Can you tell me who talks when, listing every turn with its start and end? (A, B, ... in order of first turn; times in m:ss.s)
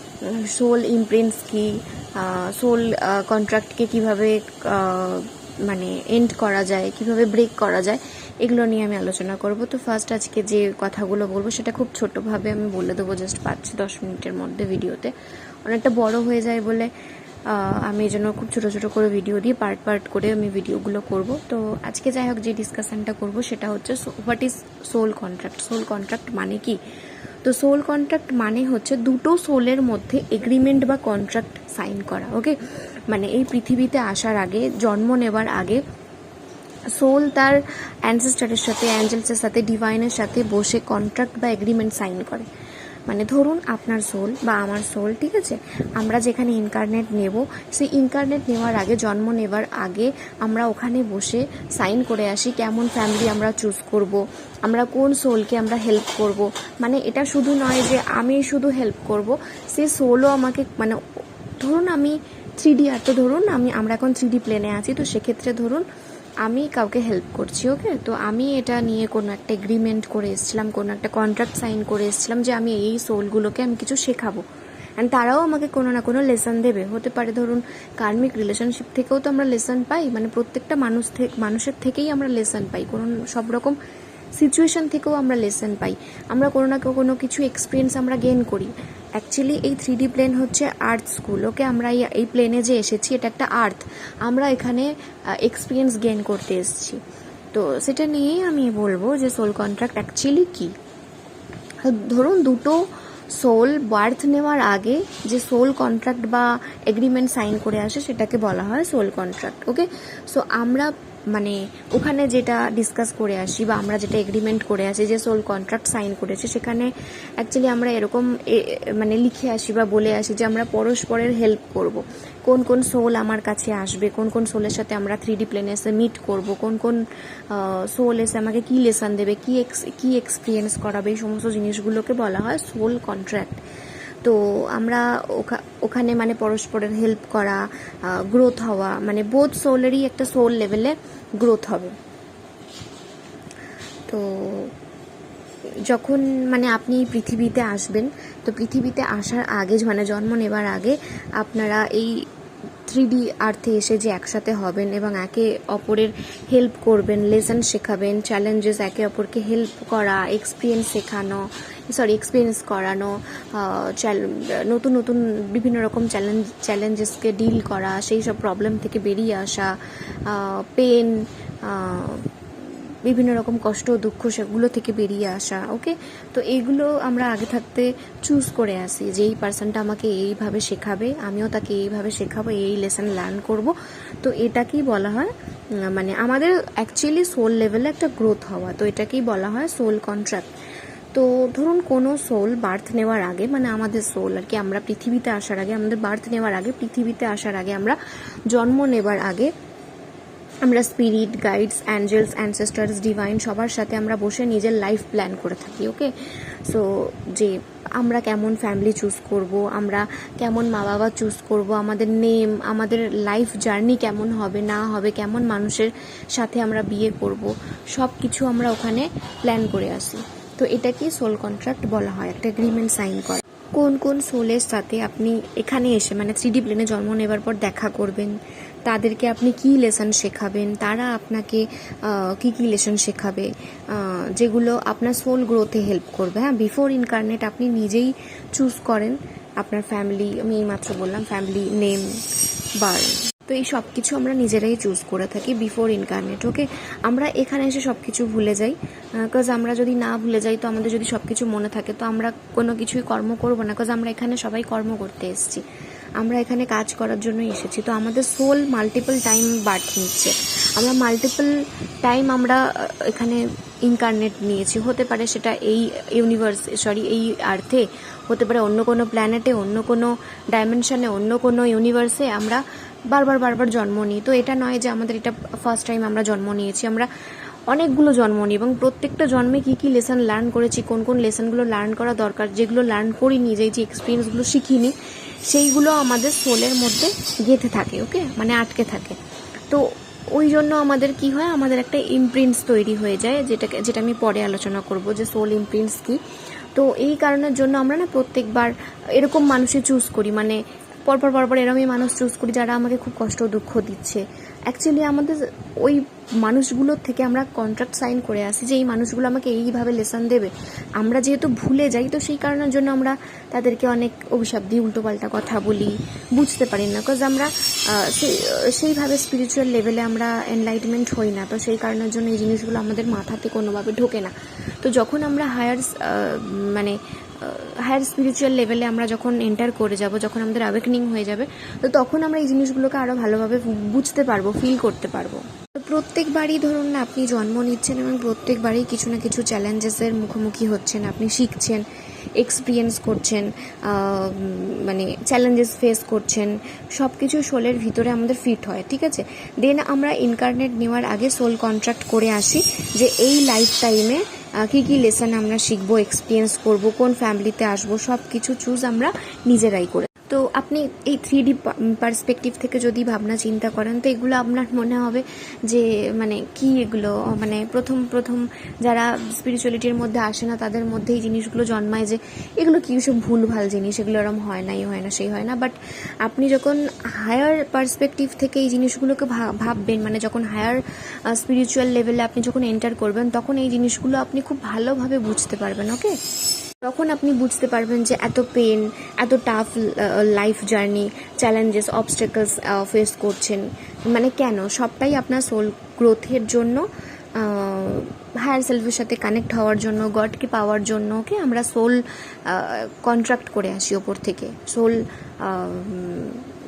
0:00.2-0:15.1 A
0:15.7-0:16.9 A
0:17.5-0:26.8 A
0:27.4-0:32.6 A
0:33.1-0:35.8 A
0:37.0-0:42.5 A
0:43.1-1:01.0 A
1:01.6-1:05.8 A
1:06.4-1:14.4 A
1:15.0-1:23.8 A
1:24.4-1:34.9 A
1:35.4-1:37.0 A
1:37.5-1:40.7 A
1:41.8-2:13.6 A
2:14.2-2:21.9 A
2:24.1-2:24.7 A
2:25.9-2:32.2 A
2:32.9-2:49.7 A
2:50.3-2:52.3 A
2:53.0-3:05.3 A
3:05.8-3:10.5 A
3:11.1-3:18.0 A
3:18.5-3:19.5 A
3:20.6-3:26.1 A
3:26.6-3:48.3 A
3:48.9-4:02.1 A
4:02.8-4:15.6 A
4:16.2-4:37.1 A
4:37.7-4:45.0 A
4:45.5-4:49.2 A
4:49.7-4:56.2 A
4:56.8-5:24.3 A
5:24.8-5:41.8 A
5:42.4-6:26.1 A
6:26.8-6:36.8 A
6:37.4-6:46.5 A